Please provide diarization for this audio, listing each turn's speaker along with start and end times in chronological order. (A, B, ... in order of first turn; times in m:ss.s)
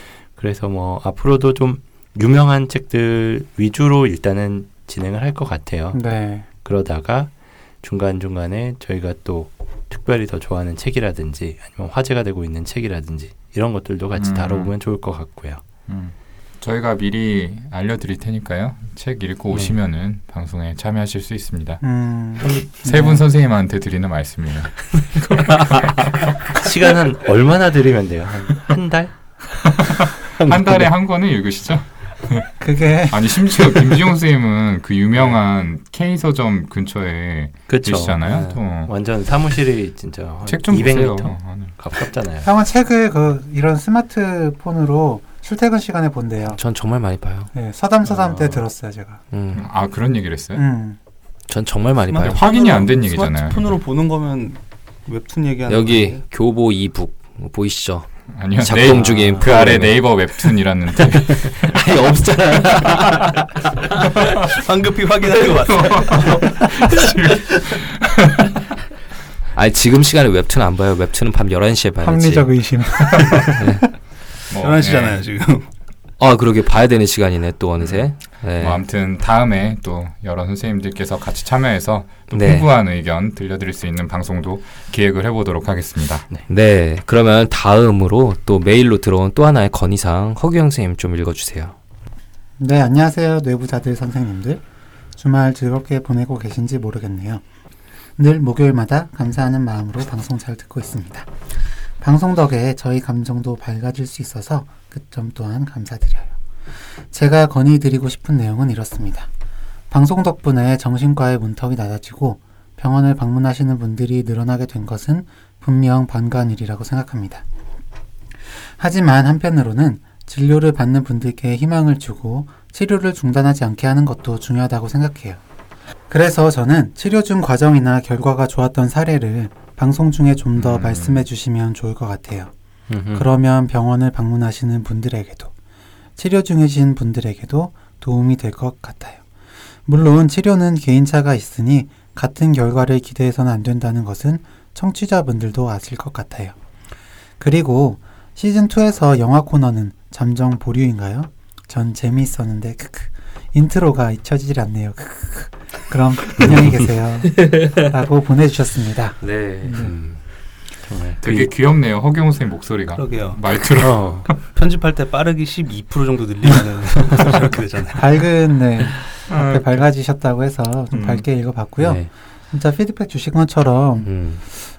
0:00.3-0:06.0 A
0:05.9-0:06.5 B
0:06.6-0:15.6 A
0:14.2-0:14.7 C
0:15.9-0:21.8 C
0:21.8-0:23.2 B
0:22.4-0:25.9 C
0:26.5-0:29.1 A
0:29.8-0:32.5 C
0:30.4-0:30.9 A
0:32.6-0:33.6 B
0:33.1-0:38.9 C
0:37.7-0:42.5 A
0:38.3-0:38.6 D
0:40.5-0:41.8 C
0:42.4-0:46.6 B
0:46.5-0:47.5 D
0:47.5-0:49.2 B
0:49.3-0:49.7 D
0:49.5-0:50.6 C
0:50.6-0:51.0 B
0:51.5-0:52.4 D
0:52.1-0:56.2 E
0:52.2-0:53.6 C
0:55.7-1:00.2 D
0:58.3-1:01.8 C
0:59.1-0:59.4 A
1:01.3-1:04.2 D
1:04.4-1:06.7 E
1:05.7-1:08.5 C
1:09.6-1:12.5 D
1:12.0-1:13.6 B
1:13.6-1:13.8 D
1:14.5-1:15.2 C
1:14.6-1:15.6 E
1:16.2-1:18.8 D
1:18.6-1:26.3 C
1:22.3-1:22.7 D
1:26.5-1:31.8 D
1:32.6-1:34.6 B
1:35.2-1:37.4 B
1:38.2-1:41.3 B
1:42.0-1:46.3 B
1:47.1-1:49.3 B
1:49.9-1:57.4 B
1:58.8-2:05.4 B
2:06.1-2:12.5 B
2:10.6-2:11.3 C
2:12.9-2:13.3 A
2:13.1-2:15.5 B
2:16.2-2:19.2 B
2:19.9-2:26.5 B
2:27.4-2:39.9 B
2:36.4-2:36.7 A
2:37.3-2:37.9 D
2:39.2-2:39.8 D
2:39.8-2:40.2 A
2:40.8-2:41.5 A
2:41.2-2:44.4 C
2:43.0-2:43.4 E
2:43.8-2:44.4 A
2:44.4-2:48.1 E
2:48.0-2:54.1 B
2:50.9-2:51.2 C
2:51.8-2:52.1 D
2:54.0-2:54.4 D